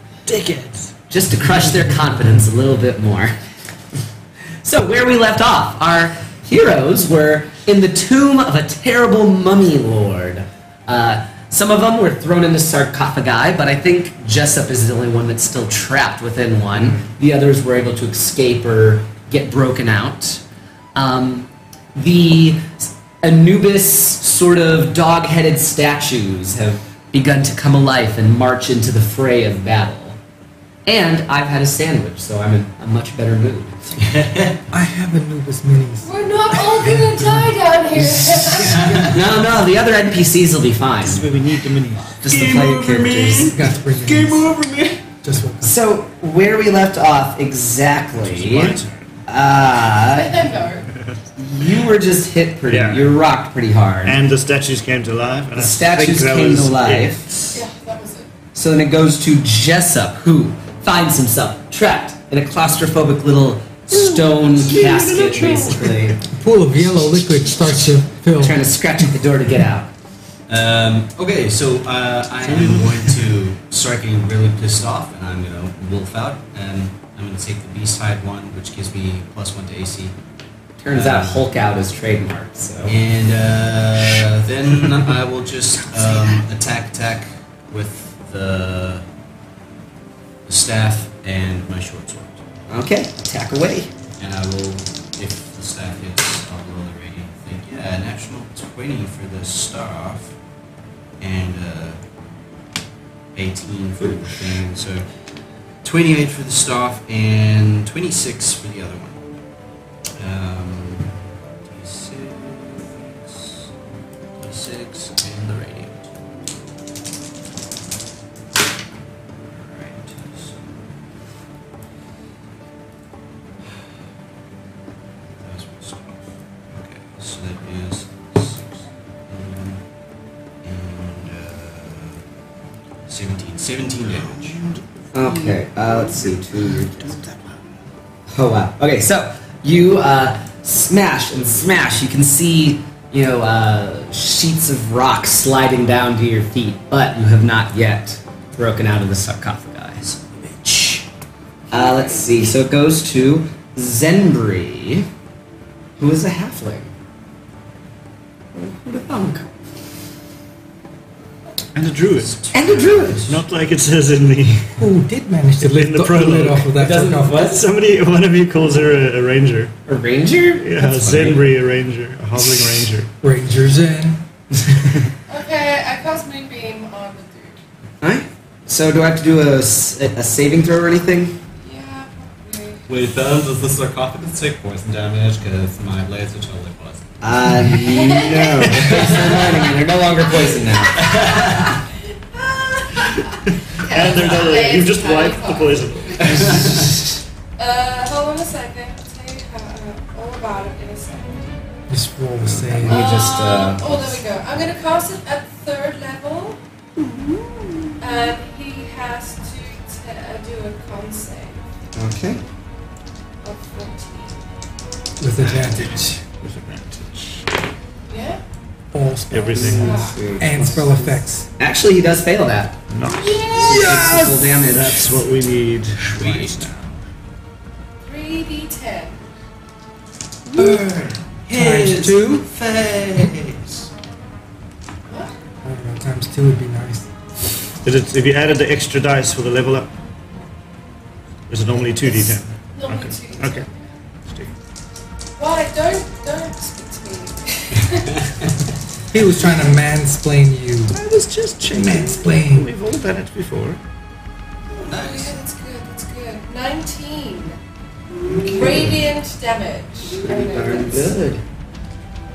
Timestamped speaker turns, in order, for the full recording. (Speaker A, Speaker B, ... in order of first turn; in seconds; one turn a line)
Speaker A: 0.2-0.9
Speaker B: 1.1-3.4
Speaker B: 4.6-20.4
Speaker A: 16.7-17.0
Speaker B: 20.9-30.2
Speaker B: 30.9-33.7
Speaker C: 34.0-34.6
Speaker D: 34.7-39.4
Speaker E: 36.0-38.8
Speaker C: 38.4-39.2
Speaker B: 39.0-41.3
Speaker A: 41.0-42.2
Speaker B: 42.2-43.5
Speaker C: 42.2-45.0
Speaker D: 43.4-44.5
Speaker D: 45.2-45.7
Speaker B: 45.6-50.5
Speaker A: 48.2-49.1
Speaker E: 50.1-50.9
Speaker B: 51.4-54.1
Speaker A: 52.7-53.1
Speaker A: 54.0-57.6
Speaker B: 55.6-57.2
Speaker E: 57.5-58.3
Speaker B: 58.5-66.2
Speaker A: 63.9-66.1
Speaker D: 66.3-68.6
Speaker B: 68.4-69.9
Speaker C: 70.5-80.1
Speaker A: 72.5-73.0
Speaker B: 80.8-83.0
Speaker C: 80.9-81.5
Speaker C: 82.8-89.0
Speaker C: 90.5-92.4
Speaker B: 92.7-93.9
Speaker C: 94.2-100.3
Speaker C: 101.2-102.0
Speaker C: 103.3-105.0
Speaker A: 104.0-104.6
Speaker C: 105.8-109.2
Speaker C: 110.2-111.1
Speaker C: 111.7-113.7
Speaker C: 114.4-116.0
Speaker C: 119.4-120.8
Speaker C: 125.4-129.8
Speaker C: 130.6-132.2
Speaker C: 133.1-134.6
Speaker A: 134.1-137.7
Speaker B: 135.1-137.2
Speaker B: 138.3-151.1
Speaker E: 151.7-152.5
Speaker B: 151.7-155.1
Speaker B: 156.0-156.9
Speaker B: 158.5-159.5
Speaker A: 161.7-162.3
Speaker C: 162.2-163.4
Speaker B: 162.5-163.2
Speaker A: 163.3-164.8
Speaker D: 164.8-167.5
Speaker A: 165.6-166.7
Speaker B: 166.8-167.6
Speaker A: 167.3-169.7
Speaker B: 169.8-171.4
Speaker A: 170.6-173.1
Speaker D: 173.2-174.2
Speaker E: 175.3-177.6
Speaker B: 178.0-181.4
Speaker E: 181.6-182.8
Speaker C: 182.9-187.1
Speaker B: 187.2-191.0
Speaker E: 187.7-188.8
Speaker C: 188.7-189.4
Speaker E: 190.2-196.9
Speaker C: 190.9-191.8
Speaker A: 193.9-196.8
Speaker C: 196.2-196.9
Speaker E: 197.6-201.6
Speaker D: 201.9-203.0
Speaker B: 202.4-204.2
Speaker E: 202.8-206.6
Speaker E: 208.0-211.6
Speaker B: 211.9-212.4
Speaker E: 213.4-214.4
Speaker D: 215.2-216.2
Speaker A: 215.4-215.8
Speaker A: 216.4-217.5
Speaker E: 218.1-218.4
Speaker D: 218.9-221.5
Speaker A: 219.3-220.0
Speaker B: 219.5-222.7
Speaker E: 219.8-220.3
Speaker A: 222.9-223.9
Speaker D: 223.2-224.6
Speaker B: 223.6-225.1
Speaker A: 224.7-227.0
Speaker C: 226.0-226.6
Speaker E: 228.1-229.2
Speaker C: 230.5-233.9
Speaker D: 231.5-232.2
Speaker B: 231.6-232.4
Speaker E: 235.1-235.3
Speaker D: 235.6-237.1
Speaker A: 237.8-239.9
Speaker A: 241.5-243.7
Speaker E: 242.7-243.7
Speaker A: 244.2-244.5
Speaker E: 245.4-248.2
Speaker D: 249.1-251.0
Speaker A: 250.9-253.8
Speaker D: 251.7-252.7
Speaker E: 254.7-257.6
Speaker C: 254.8-255.3
Speaker B: 258.3-259.0
Speaker E: 258.4-261.1
Speaker B: 260.0-261.4